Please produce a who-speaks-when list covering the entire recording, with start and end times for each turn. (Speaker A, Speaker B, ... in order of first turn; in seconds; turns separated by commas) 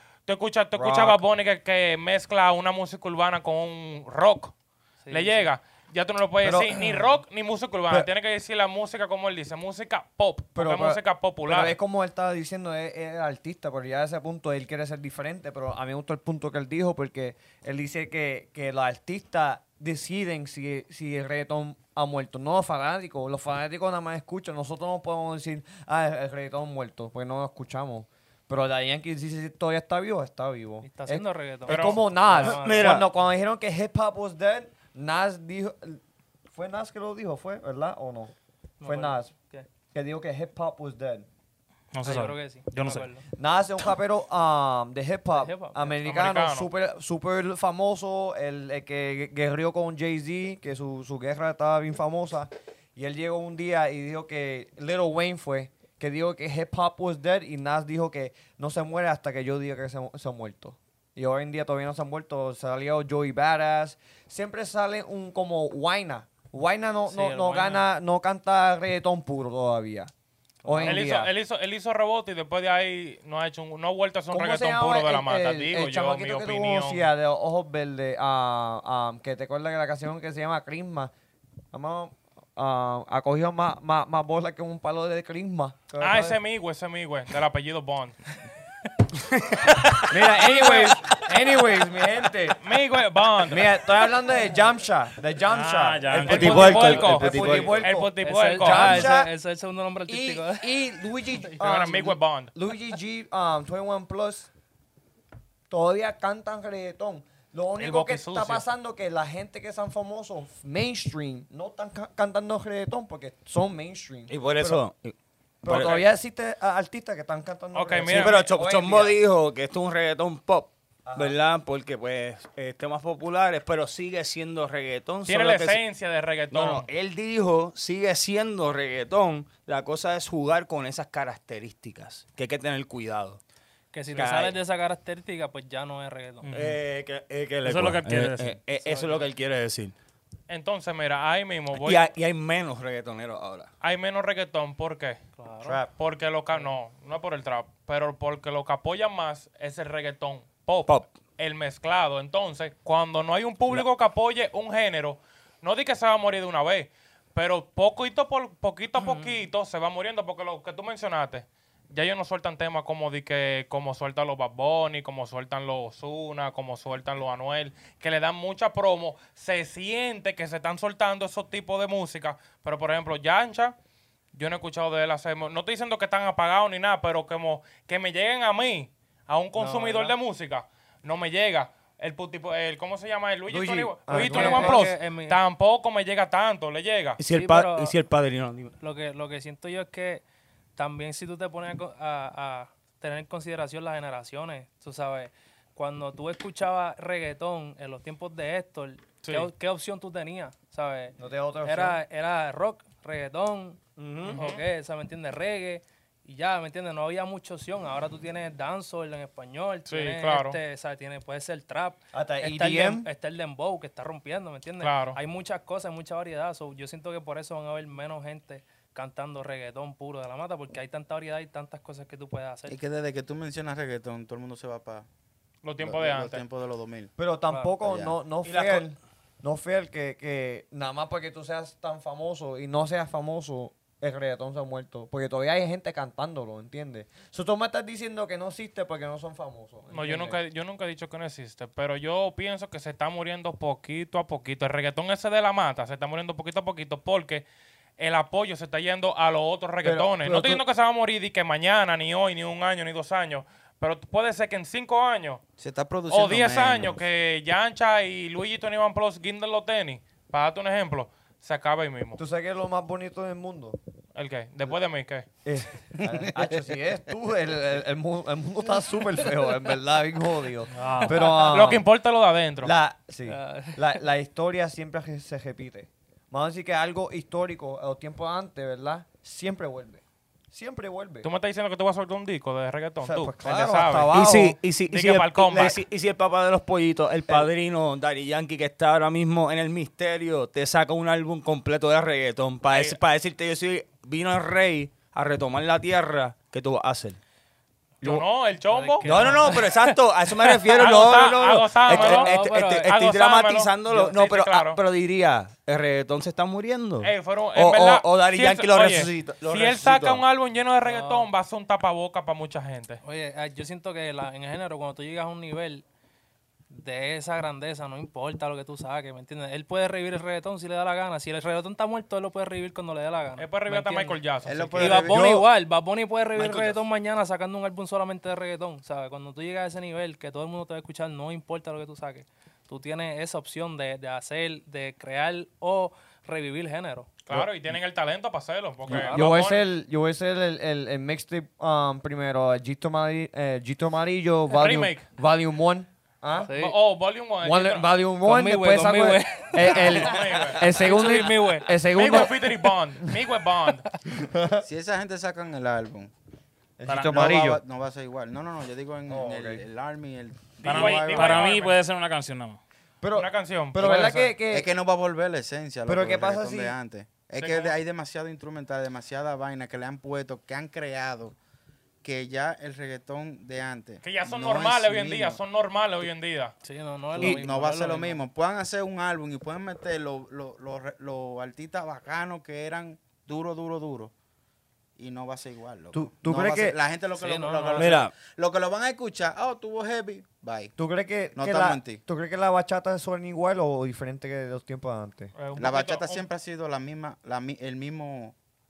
Speaker A: 0.2-4.5, Speaker B: 0.7-1.2, Speaker C: 5.0-5.5, Speaker A: 5.1-11.7, Speaker B: 6.4-6.8, Speaker B: 10.6-36.0, Speaker C: 30.8-33.0, Speaker A: 31.7-32.0, Speaker D: 32.4-33.1, Speaker B: 36.5-39.3, Speaker C: 38.8-39.7, Speaker B: 39.9-41.3, Speaker E: 41.9-43.0, Speaker C: 42.0-43.2, Speaker B: 43.4-70.1, Speaker C: 45.4-46.0, Speaker A: 46.0-46.7, Speaker C: 67.1-67.8, Speaker C: 70.6-71.0, Speaker B: 70.6-71.3, Speaker A: 70.8-77.0, Speaker B: 74.3-81.1, Speaker B: 81.7-86.4, Speaker A: 86.0-88.2, Speaker D: 89.2-90.2, Speaker B: 90.1-92.6, Speaker A: 90.3-91.0, Speaker A: 92.6-93.7, Speaker B: 93.5-99.3, Speaker E: 95.5-96.8, Speaker D: 96.1-97.9, Speaker A: 96.2-99.1, Speaker C: 98.2-100.7, Speaker B: 100.1-104.5, Speaker A: 101.5-102.5, Speaker B: 105.7-114.8, Speaker A: 107.8-108.6, Speaker D: 114.3-116.0, Speaker B: 115.6-119.2, Speaker A: 115.7-116.0, Speaker A: 117.7-118.5, Speaker D: 118.0-125.8, Speaker B: 121.0-121.4, Speaker A: 125.2-126.9, Speaker D: 126.5-133.4, Speaker C: 133.9-136.5, Speaker D: 134.1-134.6, Speaker E: 136.4-136.8, Speaker D: 136.5-139.9, Speaker E: 137.6-138.6, Speaker C: 138.8-139.3, Speaker A: 140.5-142.1, Speaker D: 141.7-143.7, Speaker A: 143.8-145.2, Speaker C: 145.4-145.8, Speaker B: 145.6-145.9, Speaker A: 146.0-173.7, Speaker D: 159.0-159.3, Speaker A: 174.3-187.2, Speaker C: 179.5-180.2, Speaker B: 183.5-184.9, Speaker C: 184.1-185.4, Speaker D: 187.2-188.7, Speaker C: 187.3-187.9, Speaker C: 188.8-190.2, Speaker C: 190.8-222.8, Speaker A: 199.2-199.5, Speaker B: 201.2-202.0, Speaker D: 204.0-204.4, Speaker A: 204.2-204.6, Speaker A: 209.9-210.6, Speaker B: 212.1-213.1, Speaker A: 214.8-215.2, Speaker F: 222.7-225.1, Speaker A: 225.6-226.4, Speaker F: 225.8-227.1, Speaker B: 227.2-240.4, Speaker C: 227.5-227.7, Speaker D: 228.4-228.9, Speaker A: 239.9-247.4, Speaker A: 248.0-255.4, Speaker B: 249.8-250.6, Speaker F: 255.6-257.0, Speaker A: 256.1-262.2, Speaker B: 262.2-263.8, Speaker A: 264.1-265.2, Speaker B: 265.4-271.9, Speaker F: 266.0-266.3, Speaker E: 270.8-271.2, Speaker C: 270.8-271.5, Speaker A: 271.4-272.7, Speaker B: 272.6-281.3, Speaker C: 273.3-274.0, Speaker A: 281.2-284.1, Speaker B: 283.0-284.6, Speaker D: 284.1-297.2, Speaker A: 284.9-285.8, Speaker A: 292.7-293.0, Speaker A: 298.0-299.6, Speaker C: 298.7-299.8, Speaker D: 299.0-310.2, Speaker A: 300.4-304.8, Speaker C: 301.9-302.9, Speaker A: 307.0-313.0, Speaker C: 310.8-311.3, Speaker C: 313.0-315.8, Speaker C: 316.7-324.2, Speaker A: 323.4-325.1, Speaker F: 324.4-325.2, Speaker C: 324.7-337.1, Speaker D: 325.1-325.4, Speaker D: 326.4-326.8, Speaker A: 337.2-339.6, Speaker C: 338.9-339.2, Speaker B: 338.9-346.5, Speaker A: 344.5-345.1, Speaker C: 346.4-346.8, Speaker A: 346.5-347.9, Speaker B: 347.4-352.6, Speaker C: 348.2-351.7, Speaker A: 349.6-350.7, Speaker A: 351.9-353.9, Speaker B: 354.2-354.6, Speaker F: 354.6-356.1, Speaker B: 356.8-357.6, Speaker E: 356.9-357.4, Speaker F: 357.1-361.6, Speaker B: 359.1-359.6, Speaker A: 360.6-361.8, Speaker E: 360.6-362.6, Speaker B: 363.0-364.7, Speaker A: 363.1-364.4, Speaker F: 364.4-371.4, Speaker B: 365.9-366.8, Speaker A: 367.4-367.8, Speaker F: 372.0-375.4, Speaker A: 374.0-376.5, Speaker C: 376.6-378.2, Speaker F: 377.1-384.1, Speaker F: 385.0-390.7, Speaker B: 385.9-386.8, Speaker C: 387.1-388.0, Speaker D: 387.8-388.1, Speaker B: 390.8-395.3, Speaker F: 391.3-392.0, Speaker A: 395.3-396.2, Speaker F: 395.6-398.3